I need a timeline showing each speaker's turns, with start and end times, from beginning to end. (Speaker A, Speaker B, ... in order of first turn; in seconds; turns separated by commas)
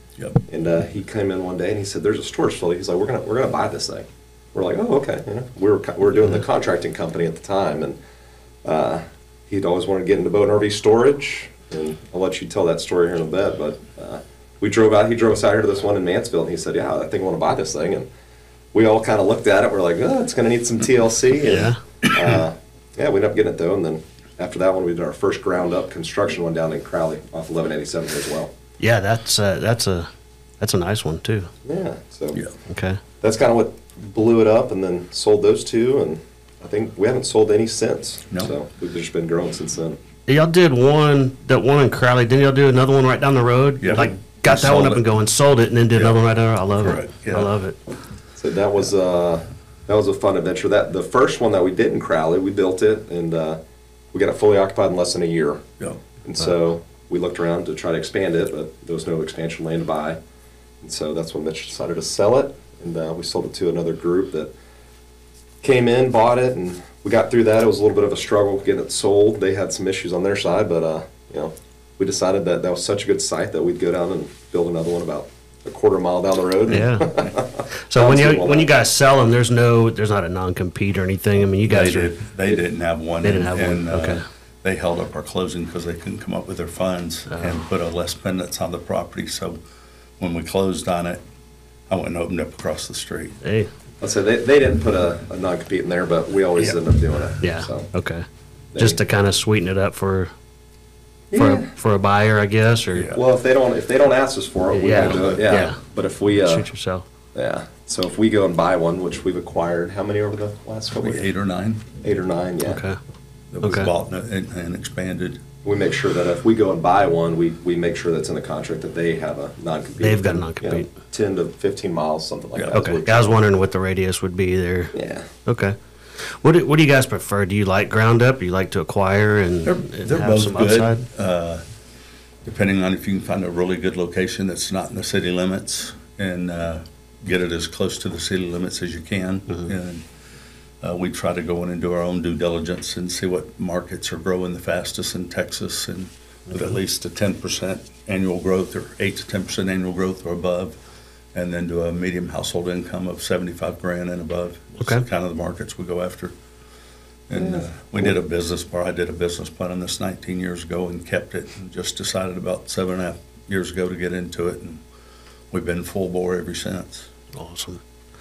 Speaker A: 0.2-0.4, Speaker B: 0.5-8.0, Speaker B: 8.6-18.1, Speaker B: 18.7-28.5, Speaker C: 21.4-21.8, Speaker C: 28.8-31.5, Speaker B: 31.6-32.4, Speaker C: 32.7-33.0, Speaker B: 33.2-40.0, Speaker C: 40.3-47.8, Speaker A: 43.8-45.0, Speaker A: 46.8-47.5, Speaker B: 48.4-53.6, Speaker B: 54.1-55.7, Speaker B: 56.2-60.2, Speaker B: 60.8-64.5, Speaker B: 65.6-78.7, Speaker C: 76.7-82.2, Speaker A: 81.7-89.6, Speaker C: 83.2-84.2, Speaker C: 87.3-87.6, Speaker A: 90.2-91.2, Speaker A: 91.9-93.4, Speaker C: 93.4-93.7, Speaker B: 94.0-97.9, Speaker C: 97.4-98.3, Speaker B: 98.7-99.0, Speaker C: 98.8-100.3, Speaker B: 101.3-101.7, Speaker C: 101.3-103.1, Speaker A: 102.9-103.2, Speaker B: 103.1-106.7, Speaker C: 104.7-105.8, Speaker C: 106.5-107.0, Speaker B: 107.3-111.3, Speaker A: 111.0-111.9, Speaker B: 112.0-112.8, Speaker C: 112.7-113.0, Speaker A: 113.5-115.4, Speaker C: 113.6-113.9, Speaker B: 115.6-123.4, Speaker C: 120.0-120.9, Speaker A: 122.5-122.8, Speaker C: 122.7-131.1, Speaker B: 124.9-125.3, Speaker A: 129.7-131.7, Speaker A: 132.4-140.0, Speaker A: 140.8-150.8, Speaker A: 151.3-156.3, Speaker C: 154.8-155.0, Speaker A: 157.3-164.8, Speaker B: 157.4-158.1, Speaker A: 165.5-167.1, Speaker C: 167.3-167.8